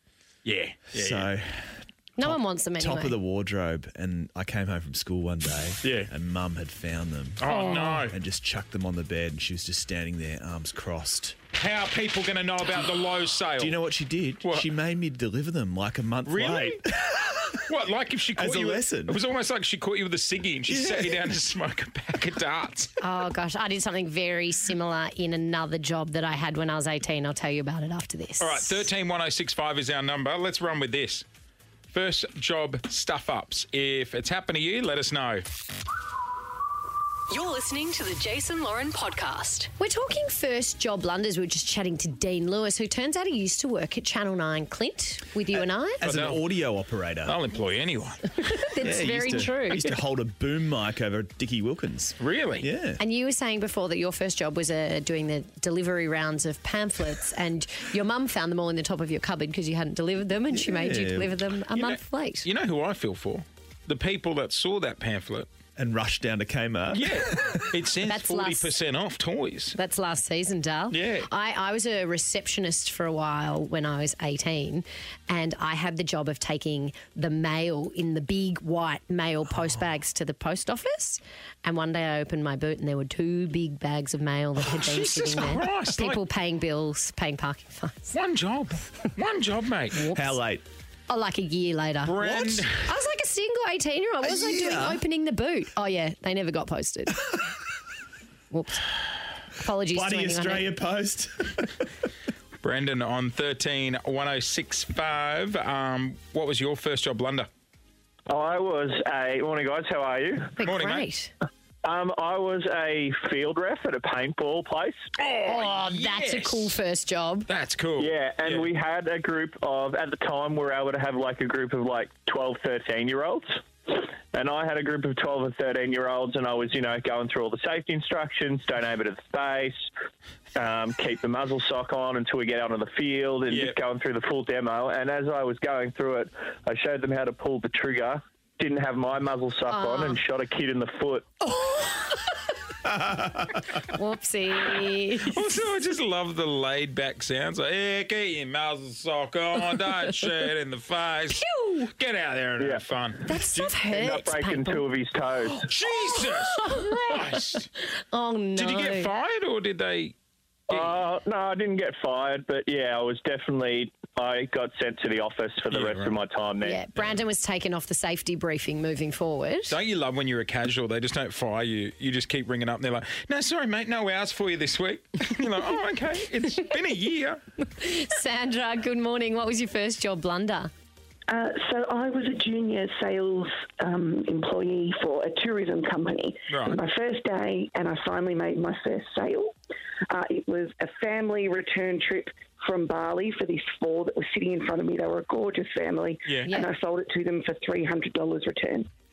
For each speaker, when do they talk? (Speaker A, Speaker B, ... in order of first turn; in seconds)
Speaker A: 0.4-1.3, 5.8-6.1, 7.4-8.1, 11.5-13.8, 14.4-14.7, 16.2-16.8, 17.7-22.9, 28.4-31.2, 31.9-35.4, 46.0-46.4, 47.2-48.2, 52.2-52.7, 61.7-65.5, 66.9-69.8, 70.9-71.3, 84.7-86.2, 88.1-90.0, 92.0-92.9, 102.6-107.5, 110.6-111.1, 115.2-116.7, 117.5-118.7, 133.5-133.8, 145.2-153.2, 155.4-157.7, 158.5-160.1, 160.7-161.0, 165.7-166.2, 169.7-177.4, 186.5-186.8, 196.2-196.5
Speaker B: 0.9-11.3, 13.6-17.6, 18.3-19.2, 20.7-21.3, 45.5-47.4, 48.8-53.0, 60.5-61.4, 65.8-67.6, 90.1-90.6, 94.2-95.0, 99.9-101.9
Speaker C: 2.2-3.2, 7.5-8.0, 23.0-28.9, 39.8-46.0, 48.4-49.9, 53.0-62.5, 68.0-68.7, 69.7-88.1, 90.0-90.4, 91.1-97.4, 98.5-98.9, 99.6-100.8, 110.6-111.3, 115.5-117.5, 139.7-140.2, 141.6-142.1, 143.8-145.4, 151.4-151.8, 153.3-154.8, 156.6-157.2, 158.1-159.1, 166.6-169.8, 177.7-180.7
Speaker D: 37.3-39.7
Speaker E: 108.3-110.5, 111.8-115.0, 118.0-129.7, 130.5-141.2, 153.9-155.5, 160.8-166.8
Speaker F: 181.3-189.5, 190.1-198.9